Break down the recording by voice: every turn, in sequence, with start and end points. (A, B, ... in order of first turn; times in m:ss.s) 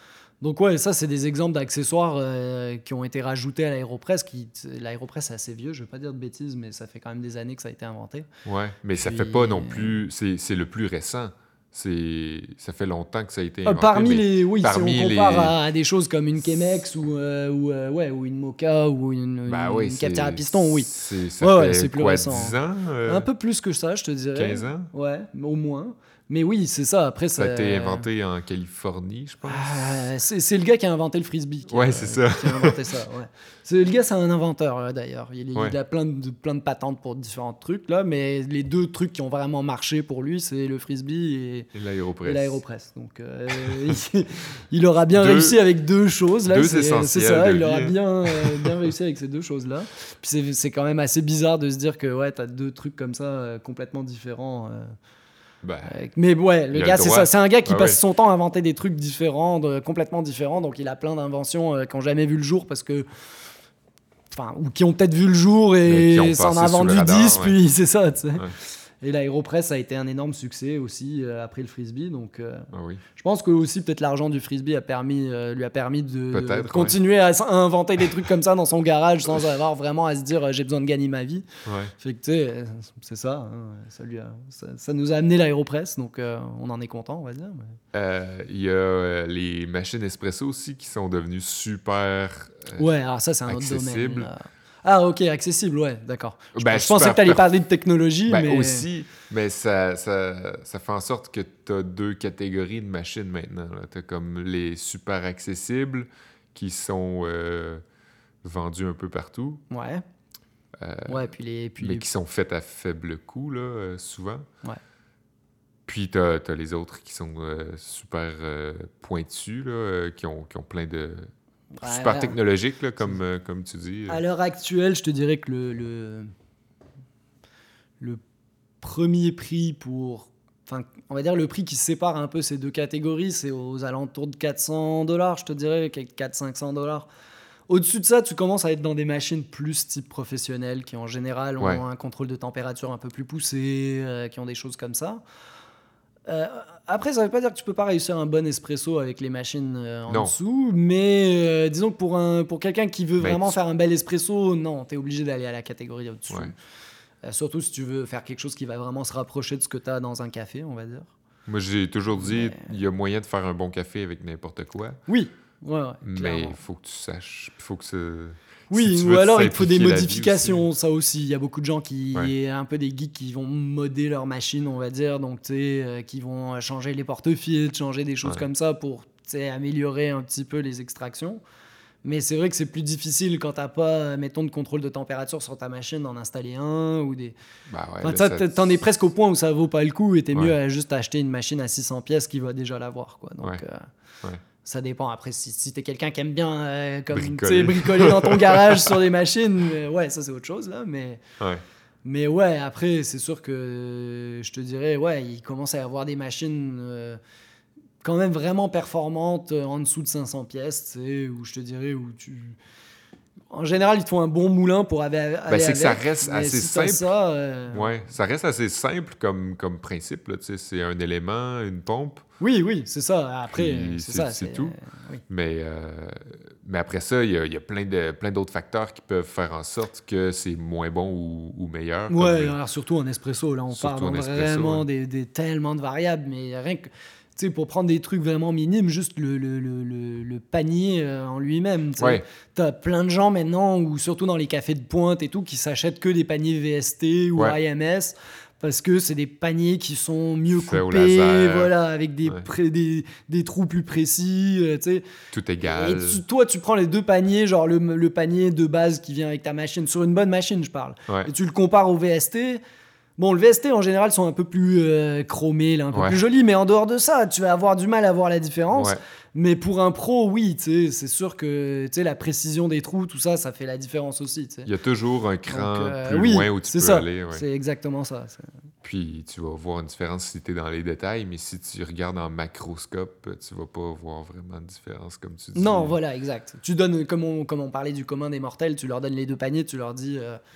0:00.4-0:08.3 A
0:08.4-0:15.6 B
0:09.0-0:10.0 A
0:13.6-0:28.1 A
0:19.5-0:23.3 B
0:24.3-0:24.9 B
0:27.4-0:30.1 B
0:29.4-0:41.7 A
0:31.7-0:32.8 B
0:41.7-0:42.6 B
0:42.2-0:55.0 A
0:45.1-0:45.6 B
0:46.5-0:48.8 B
0:55.6-0:56.0 B
0:55.9-1:03.1 A
0:56.7-0:58.0 B
1:04.3-1:08.5 A
1:05.9-1:07.6 B
1:09.0-1:21.5 A
1:12.7-1:13.0 B
1:16.3-1:17.0 B
1:21.7-1:21.9 B
1:22.0-1:27.8 A
1:27.9-1:32.9 B
1:32.8-1:38.9 A
1:33.5-1:34.3 B
1:36.6-1:37.4 B
1:38.3-1:47.8 B
1:48.4-1:49.6 B
1:49.7-1:50.0 A
1:50.8-1:51.3 B
1:51.1-1:52.0 A
1:51.8-1:54.5 B
1:55.9-2:01.3 B
2:01.8-2:02.4 A
2:01.8-2:04.2 B
2:04.1-2:06.3 A
2:08.8-2:17.1 A
2:17.7-2:25.2 A
2:26.3-2:36.6 A
2:30.1-2:30.3 B
2:33.2-2:33.6 B
2:37.2-2:41.1 A
2:41.5-2:45.0 B
2:42.2-2:42.7 A
2:45.1-2:46.6 A
2:46.0-2:50.6 B
2:48.7-3:01.4 A
3:02.0-3:07.4 A
3:07.7-3:08.8 B
3:08.0-3:13.9 A
3:14.6-3:21.2 A
3:17.1-3:19.0 B
3:22.0-3:27.2 A
3:28.0-3:32.6 A
3:33.5-3:37.9 A
3:35.5-3:37.1 B
3:37.7-3:42.3 B
3:42.4-3:45.2 A
3:43.5-3:44.8 B
3:45.3-3:52.6 B
3:52.1-4:15.0 A
3:53.7-3:54.8 B
4:02.0-4:02.2 B
4:10.5-4:11.7 B
4:15.3-4:16.2 B
4:15.6-4:22.6 A
4:23.2-4:34.7 A
4:25.9-4:26.2 B
4:28.7-4:29.0 B
4:34.7-4:37.4 B
4:35.5-4:38.5 A
4:38.8-4:46.0 B
4:45.6-4:50.4 A